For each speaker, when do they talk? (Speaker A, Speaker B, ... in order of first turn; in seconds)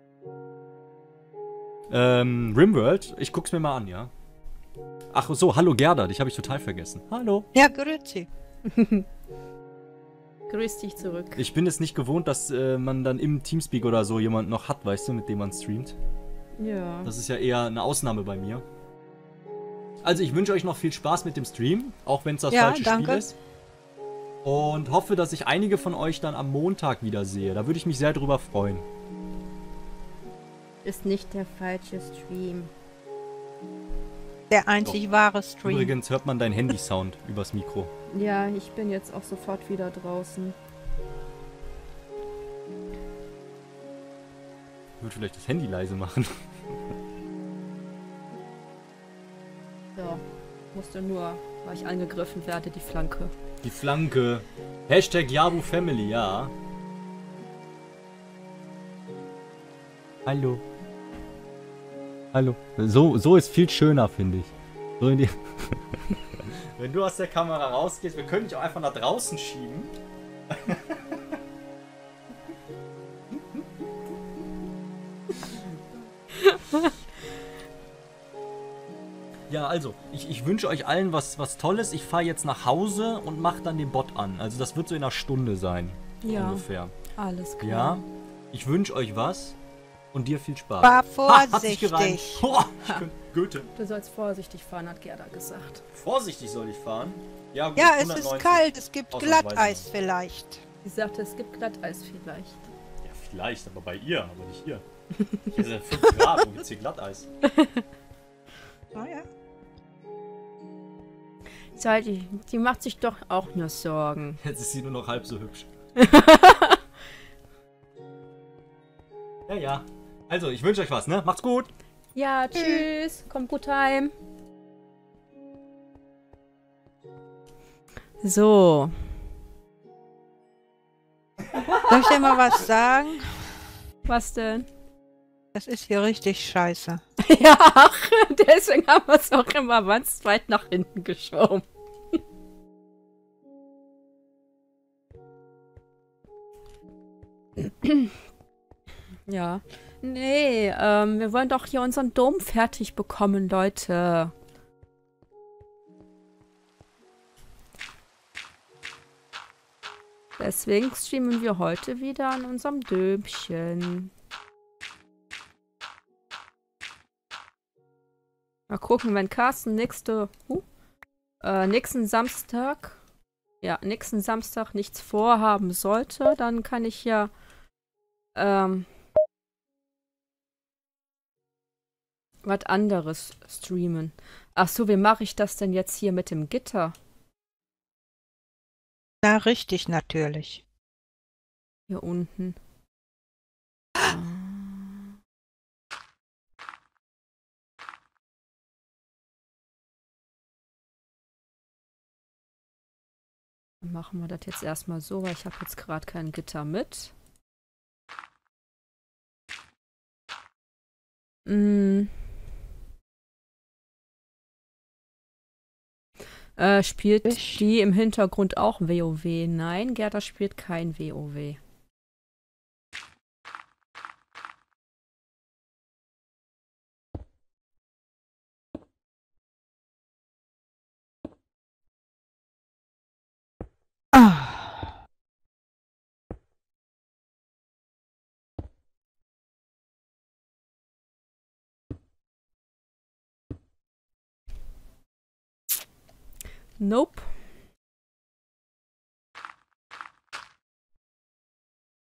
Speaker A: 1.9-4.1, 5.1-7.5, 11.4-15.9, 17.0-18.6, 20.0-23.3, 24.4-28.8, 35.6-37.9, 45.0-46.3, 53.6-56.5, 60.2-60.6, 62.3-70.0, 70.5-71.2, 79.5-86.9, 87.6-89.6, 90.1-93.7, 96.0-99.8, 103.0-104.8, 105.4-107.3, 114.4-115.7, 119.5-121.7
Speaker B: 7.5-8.3, 22.5-23.3, 34.5-35.9, 90.8-92.4, 97.8-100.6, 108.9-109.3, 122.5-122.8, 131.9-133.4, 135.5-137.0, 189.2-190.6, 217.2-217.6, 234.1-234.9
Speaker C: 8.7-9.0, 10.5-11.4, 16.6-17.1, 30.8-32.7, 38.1-40.5, 50.0-53.3, 76.3-76.9, 86.2-88.0, 93.7-95.8, 100.8-102.6, 107.5-107.8, 111.7-114.4, 116.0-116.8, 122.1-124.1, 128.2-128.9, 134.0-134.7, 137.2-142.2, 147.6-148.1, 149.3-154.3, 160.4-164.1, 168.7-170.6, 171.4-173.0, 173.6-177.3, 178.3-178.9, 182.4-186.9, 191.9-192.6, 194.0-195.1, 203.8-207.1, 211.4-212.1, 216.6-221.6, 246.8-247.3